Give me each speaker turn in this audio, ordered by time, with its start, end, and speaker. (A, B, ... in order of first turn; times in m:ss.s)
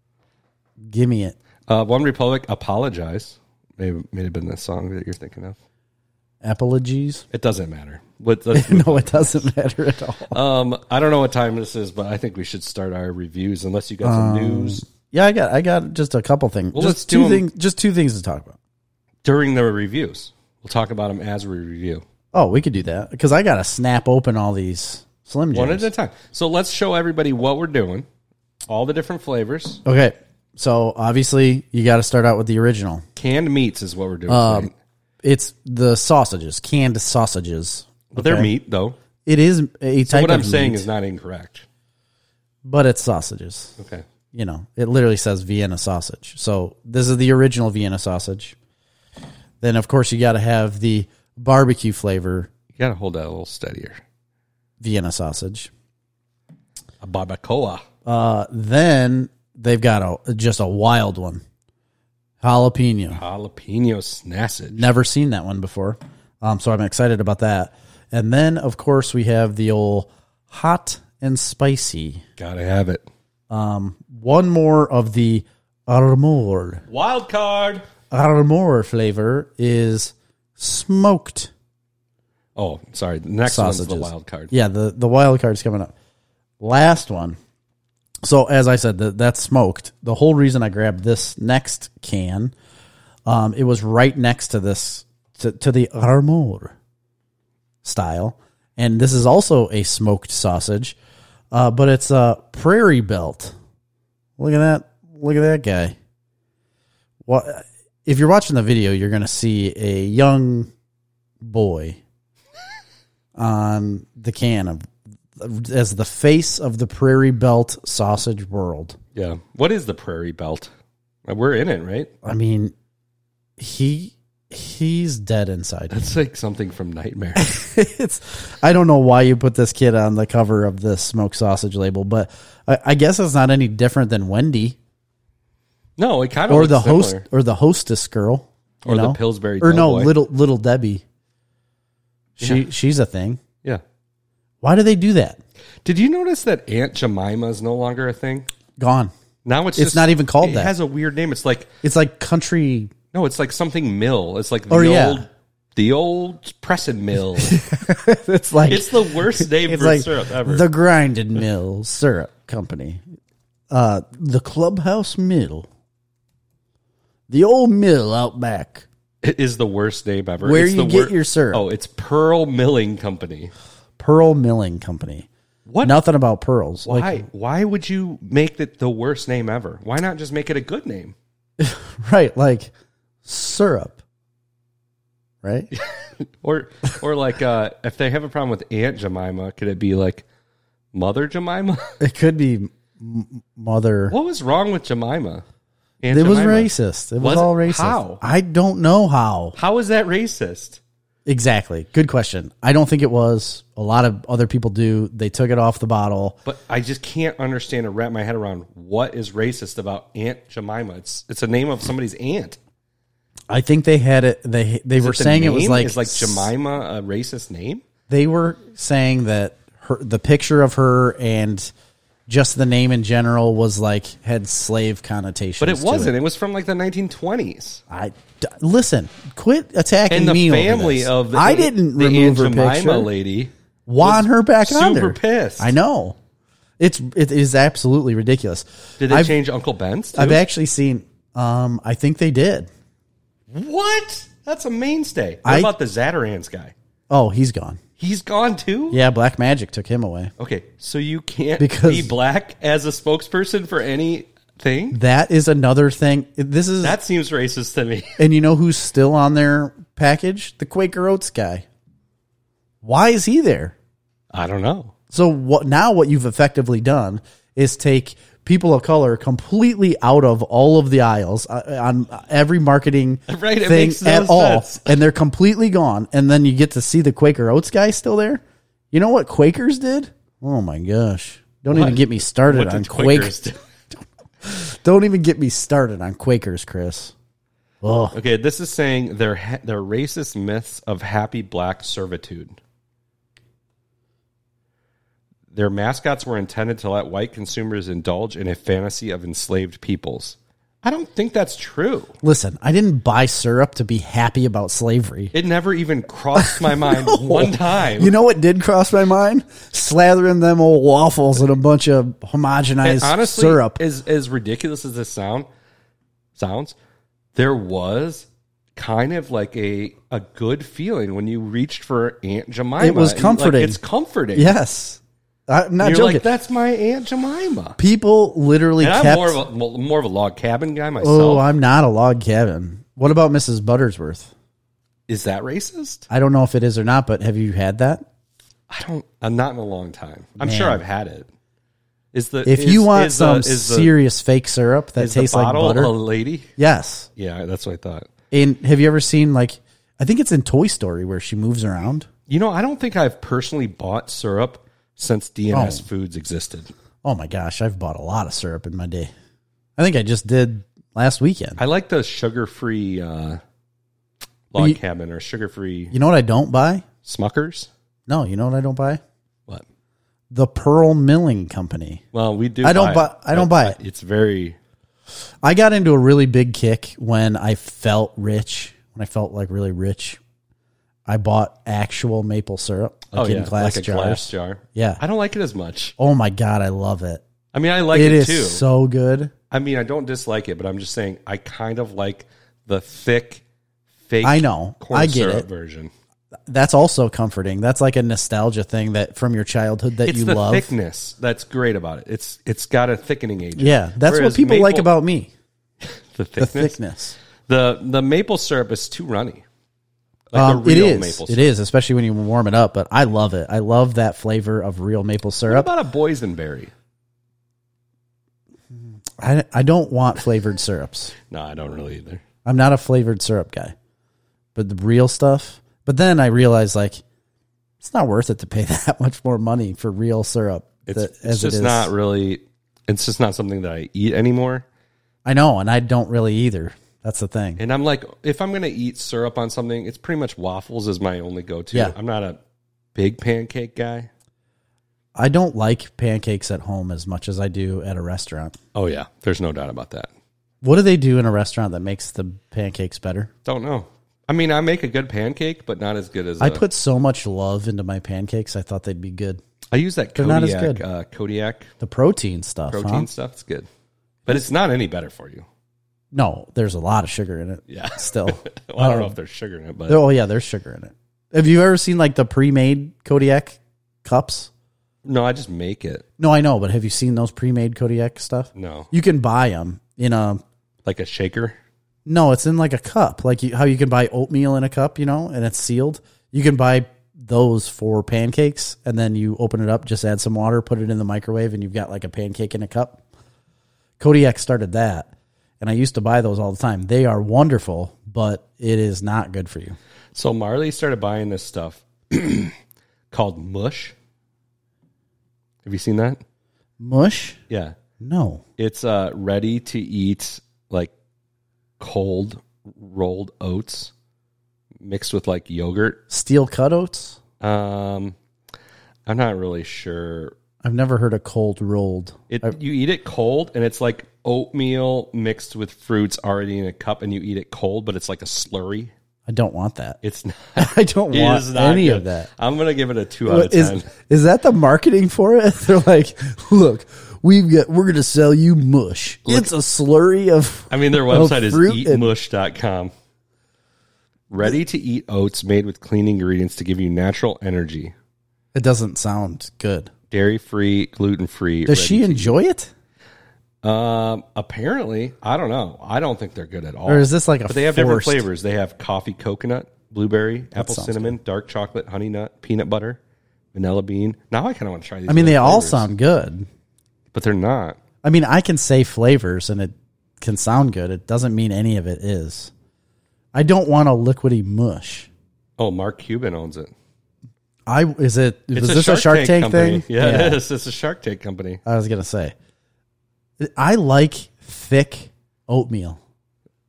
0:00.8-0:01.4 A
0:01.7-0:05.6 B
0:06.4-0:07.2 A
0:07.3-0:09.5 B
0:08.5-0:10.4 A
0:10.3-0:14.8 B
0:14.0-0:18.6 A
0:16.7-0:17.5 B
0:19.2-0:22.0 B
0:22.3-0:25.9 A
0:25.5-0:28.1 B
0:28.7-0:29.8 B
0:29.8-0:33.0 A
0:33.2-0:34.7 B
0:34.3-0:34.7 A
0:35.2-0:38.5 A
0:38.1-0:39.0 B
0:39.3-0:40.9 A
0:40.0-0:41.7 B
0:42.6-0:43.8 A
0:43.8-0:44.0 B
0:44.3-0:48.6 A
0:49.6-0:52.5 A
0:52.8-0:54.0 B
0:54.8-0:55.7 A
0:57.0-0:57.8 B
0:58.0-1:01.4 A
1:02.4-1:03.2 A
1:03.1-1:04.9 B
1:04.7-1:12.2 A
1:12.4-1:13.0 B
1:13.5-1:16.8 A
1:16.9-1:17.8 B
1:18.1-1:21.5 A
1:22.6-1:24.5 B
1:23.5-1:25.9 A
1:26.6-1:27.4 A
1:28.2-1:32.5 A
1:33.3-1:36.7 A
1:37.8-1:41.0 A
1:41.5-1:43.5 A
1:44.4-1:46.0 A
1:47.3-1:50.7 A
1:51.4-1:52.0 A
1:53.4-1:59.0 A
1:59.2-2:00.7 B
2:01.3-2:02.1 B
2:02.2-2:02.7 A
2:03.6-2:06.1 A
2:05.9-2:07.5 B
2:07.4-2:14.8 A
2:16.0-2:17.2 B
2:16.5-2:21.0 A
2:18.8-2:20.1 B
2:22.4-2:23.4 A
2:24.6-2:25.4 A
2:25.8-2:28.5 B
2:28.8-2:29.1 A
2:29.4-2:31.8 B
2:29.8-2:30.7 A
2:31.8-2:32.9 A
2:33.1-2:37.6 B
2:34.7-2:35.2 A
2:37.4-2:43.0 A
2:38.6-2:40.7 B
2:43.7-2:45.7 A
2:47.3-2:48.9 A
2:49.2-2:53.5 B
2:50.4-2:51.6 A
2:54.0-2:55.3 A
2:55.7-2:56.0 B
2:55.8-2:57.2 A
2:56.8-3:01.2 B
3:01.6-3:02.7 A
3:03.2-3:04.0 A
3:05.4-3:05.7 A
3:06.4-3:10.3 B
3:10.9-3:11.9 B
3:12.0-3:14.2 A
3:14.1-3:15.4 B
3:16.0-3:18.2 B
3:16.1-3:19.6 A
3:19.6-3:20.8 B
3:21.3-3:26.4 A
3:26.4-3:32.6 B
3:33.5-3:36.5 A
3:35.0-3:37.8 B
3:38.1-3:41.7 A
3:42.3-3:46.2 A
3:45.6-3:47.8 B
3:47.9-3:53.1 A
3:50.1-3:55.8 B
3:53.9-3:56.2 A
3:56.8-3:59.4 A
3:59.0-4:00.4 B
4:00.2-4:02.7 A
4:03.5-4:06.7 B
4:05.4-4:05.7 A
4:07.1-4:07.8 A
4:08.0-4:09.0 B
4:08.9-4:10.3 A
4:10.4-4:15.0 B
4:11.6-4:12.1 A
4:14.9-4:17.0 A
4:16.8-4:18.2 B
4:18.2-4:21.6 A
4:22.8-4:23.8 A
4:24.3-4:24.9 B
4:25.1-4:43.4 A
4:33.3-4:35.0 B
4:41.7-4:43.6 B
4:44.4-4:47.1 A
4:47.8-4:48.2 A
4:48.1-4:52.6 B
4:55.5-5:02.2 B
5:02.2-5:05.3 A
5:05.3-5:08.1 B
5:06.4-5:13.8 A
5:12.8-5:15.5 B
5:16.4-5:16.8 B
5:17.4-5:24.6 B
5:22.8-5:23.8 A
5:24.4-5:26.2 A
5:25.8-5:27.8 B
5:27.8-5:29.4 A
5:28.8-5:31.5 B
5:31.0-5:34.3 A
5:35.1-5:36.0 B
5:36.1-5:38.1 A
5:38.7-5:41.3 B
5:40.4-5:40.8 A
5:42.1-5:43.9 B
5:42.5-5:45.9 A
5:45.0-5:46.5 B
5:46.6-5:47.1 A
5:47.2-5:48.1 B
5:48.3-5:52.1 A
5:52.3-5:56.7 B
5:55.5-5:55.8 A
5:57.0-5:59.1 A
5:59.8-6:01.6 A
6:01.6-6:03.4 B
6:04.5-6:06.0 B
6:05.9-6:06.8 A
6:07.0-6:07.7 B
6:08.1-6:09.0 A
6:10.3-6:12.0 A
6:12.1-6:14.6 B
6:12.6-6:13.8 A
6:15.4-6:20.2 A
6:21.1-6:25.0 A
6:23.1-6:26.0 B
6:26.0-6:27.2 A
6:27.5-6:28.6 B
6:27.9-6:29.3 A
6:29.5-6:33.4 B
6:34.1-6:35.9 B
6:34.2-6:35.5 A
6:36.5-6:40.7 A
6:40.0-6:44.9 B
6:43.6-6:45.3 A
6:45.8-6:46.8 B
6:46.4-6:47.2 A
6:47.5-6:49.4 B
6:50.3-6:51.4 B
6:50.3-6:55.7 A
6:55.5-6:56.7 B
6:59.2-7:01.1 A
7:01.3-7:02.2 B
7:02.4-7:03.8 A
7:04.6-7:07.0 A
7:07.8-7:11.9 A
7:10.9-7:14.7 B
7:15.2-7:17.6 A
7:17.6-7:22.4 B
7:23.0-7:24.1 B
7:25.2-7:28.6 A
7:28.8-7:30.1 B
7:30.6-7:33.3 A
7:33.4-7:36.6 B
7:36.4-7:39.4 A
7:39.7-7:41.7 B
7:40.2-7:40.8 A
7:41.8-7:43.1 A
7:42.7-7:43.7 B
7:44.3-7:45.5 B
7:46.1-7:49.2 A
7:47.7-7:50.0 B
7:49.9-7:54.5 A
7:55.0-7:56.0 B
7:56.2-8:00.4 A
7:58.6-7:58.9 B
8:00.8-8:01.6 B
8:02.1-8:13.0 A
8:14.0-8:19.8 A
8:20.2-8:22.6 B
8:23.1-8:24.0 B
8:25.6-8:26.2 B
8:26.8-8:27.4 A
8:27.5-8:27.8 B
8:28.0-8:28.4 A
8:28.6-8:30.9 B
8:31.8-8:33.9 B
8:34.8-8:36.0 B
8:36.1-8:37.2 A
8:37.4-8:38.2 B
8:39.1-8:40.4 B
8:40.6-8:42.5 A
8:42.3-8:48.9 B
8:49.3-8:50.0 A
8:50.0-8:53.9 B
8:50.6-8:52.3 A
8:53.3-9:02.1 A
9:00.7-9:02.9 B
9:04.3-9:07.9 B
9:08.5-9:09.9 A
9:10.1-9:12.3 B
9:11.7-9:12.7 A
9:13.6-9:23.0 B
9:16.9-9:18.2 A
9:20.6-9:21.2 A
9:23.5-9:25.9 B
9:25.1-9:26.5 A
9:27.1-9:27.8 B
9:28.0-9:32.5 A
9:33.3-9:35.1 A
9:35.6-9:36.7 B
9:37.7-9:40.4 A
9:38.6-9:41.6 B
9:41.6-9:42.4 A
9:43.4-9:46.0 A